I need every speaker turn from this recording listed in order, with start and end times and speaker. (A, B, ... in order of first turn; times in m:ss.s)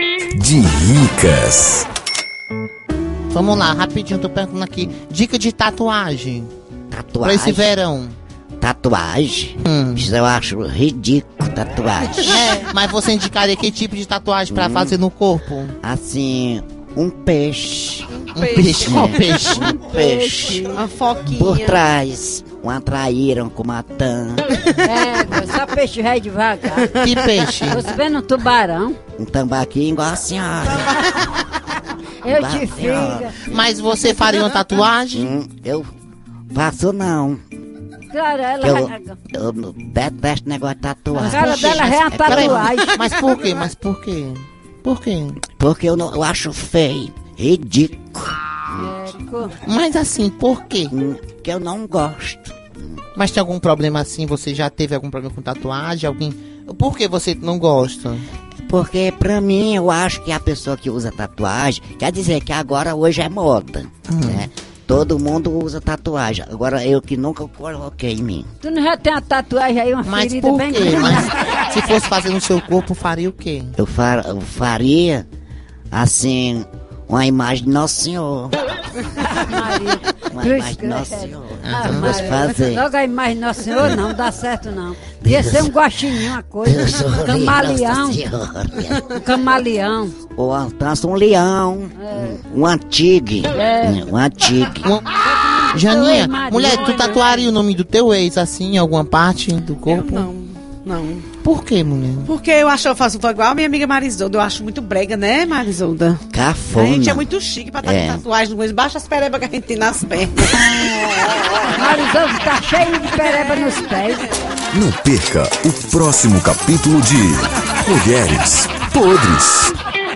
0:00.3-0:01.9 A
0:03.3-0:06.5 B
0:06.9-0:07.7 C
0:07.2-0:08.2 B
0:08.6-0:12.6 C
0:09.6-0:10.1 B
0:12.2-0:15.8 B
0:14.5-0:15.0 C
0:15.8-0:20.7 C
0:18.2-0:19.0 D
0:18.3-0:19.7 B
0:19.9-0:21.8 D
0:20.5-0:20.8 E
0:21.3-0:24.6 C
0:24.8-0:27.0 E
0:27.0-0:27.9 B
0:27.7-0:29.0 E
0:29.2-0:31.2 C
0:32.2-0:33.4 E
0:32.2-0:33.7 C
0:33.5-0:35.3 B
0:35.1-0:35.9 C
0:36.5-0:37.4 C
0:38.1-0:39.2 E
0:38.6-0:42.8 C
0:41.1-0:43.0 E
0:41.3-0:45.4 B
0:45.4-0:49.0 C
0:48.8-0:49.6 E
0:49.6-0:50.9 B
0:50.9-0:53.0 C
0:53.2-0:58.3 B
0:58.6-1:08.5 C
1:04.1-1:04.5 B
1:08.6-1:11.4 E
1:10.0-1:13.8 B
1:13.8-1:15.3 C
1:15.9-1:18.6 C
1:19.2-1:28.2 E
1:20.3-1:22.9 C
1:21.6-1:22.2 B
1:25.2-1:25.8 C
1:26.6-1:29.1 C
1:29.0-1:30.2 E
1:30.4-1:35.0 C
1:32.0-1:32.4 E
1:33.5-1:34.0 E
1:34.8-1:35.1 B
1:35.2-1:37.5 E
1:35.7-1:40.3 B
1:39.9-1:41.3 D
1:41.4-1:42.3 B
1:42.2-1:51.3 D
1:46.3-1:47.3 C
1:47.8-1:48.2 C
1:51.7-1:54.3 E
1:54.7-1:59.8 A